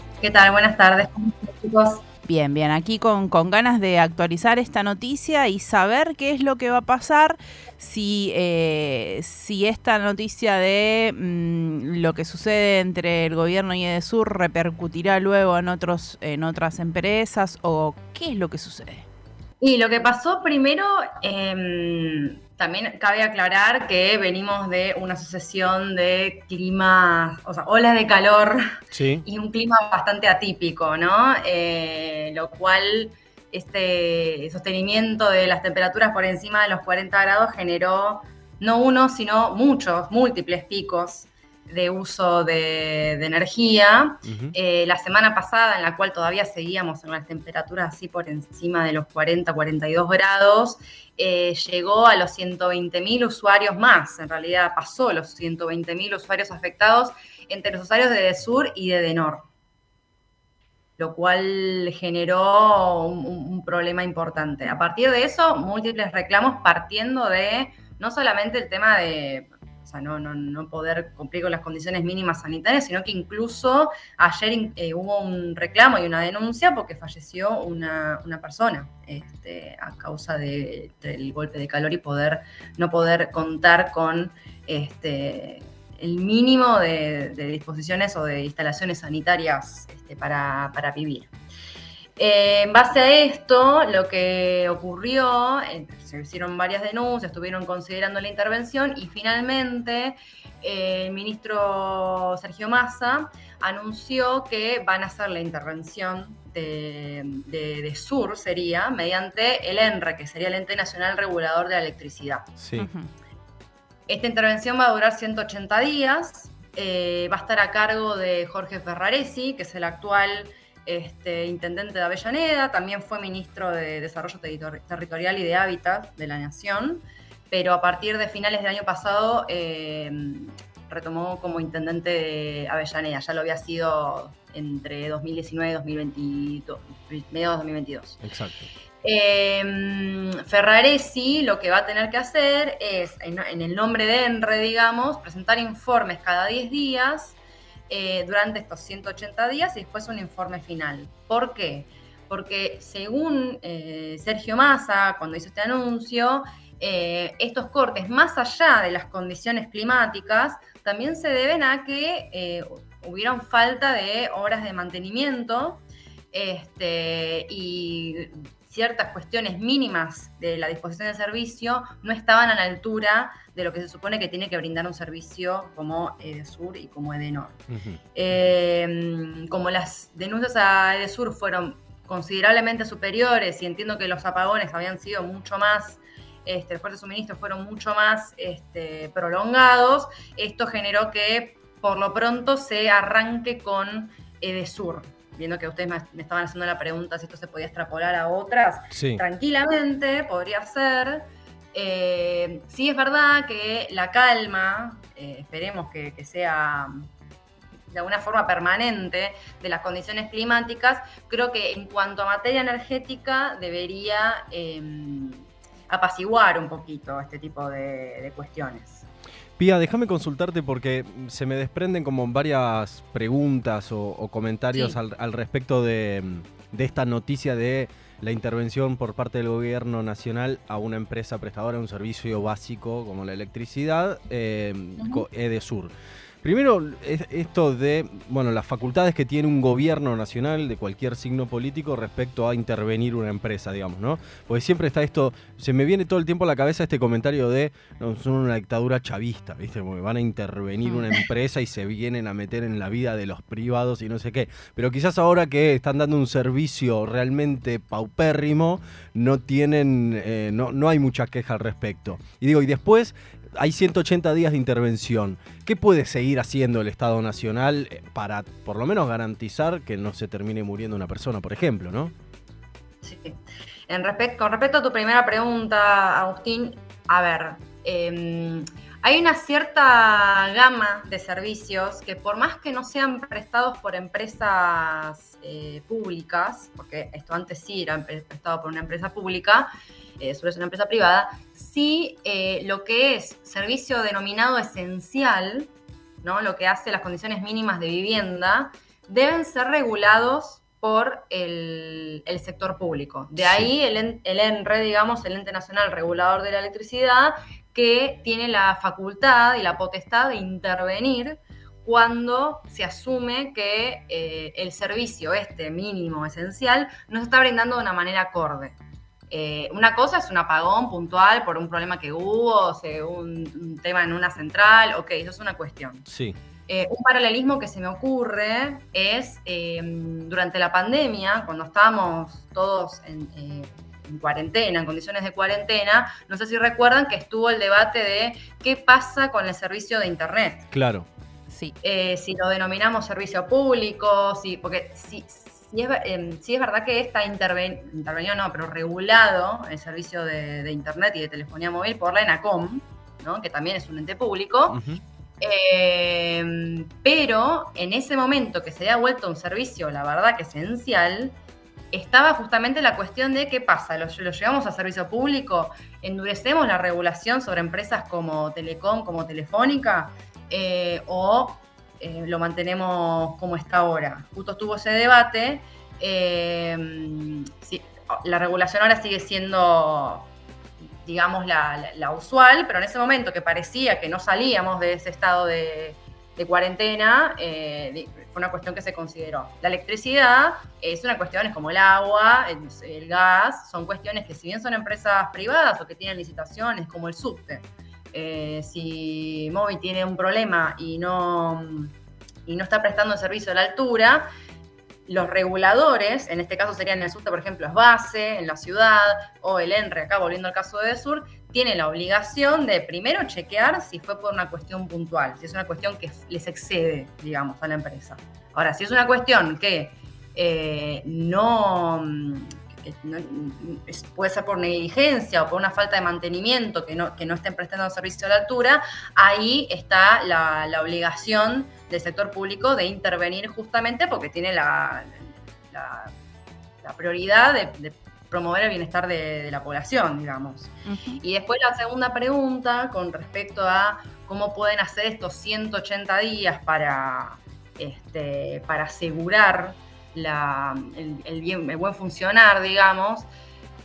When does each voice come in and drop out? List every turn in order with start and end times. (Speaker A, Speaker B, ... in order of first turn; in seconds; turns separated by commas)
Speaker A: 0.2-2.0, Speaker B: 2.2-19.1, Speaker A: 19.6-28.6, Speaker C: 28.9-29.2, Speaker A: 29.2-59.5, Speaker C: 44.3-44.5, Speaker A: 61.0-91.3, Speaker A: 92.2-112.5, Speaker C: 112.6-112.9, Speaker B: 112.8-113.1, Speaker A: 114.1-138.2, Speaker C: 138.2-138.7, Speaker A: 139.0-177.6, Speaker C: 177.7-178.0, Speaker A: 178.1-207.1, Speaker C: 198.9-199.2, Speaker A: 207.9-219.1, Speaker C: 219.6-272.1, Speaker A: 273.0-295.7, Speaker A: 296.2-318.8, Speaker C: 303.4-303.7, Speaker A: 319.3-326.1, Speaker C: 326.1-326.4, Speaker A: 326.7-340.6, Speaker C: 340.7-341.1, Speaker B: 341.5-341.7, Speaker A: 341.8-354.8, Speaker C: 354.7-355.0, Speaker A: 355.4-361.4, Speaker A: 361.9-380.3, Speaker A: 381.0-401.9, Speaker A: 402.5-404.2, Speaker A: 405.1-436.1, Speaker A: 436.8-453.3, Speaker B: 440.9-441.2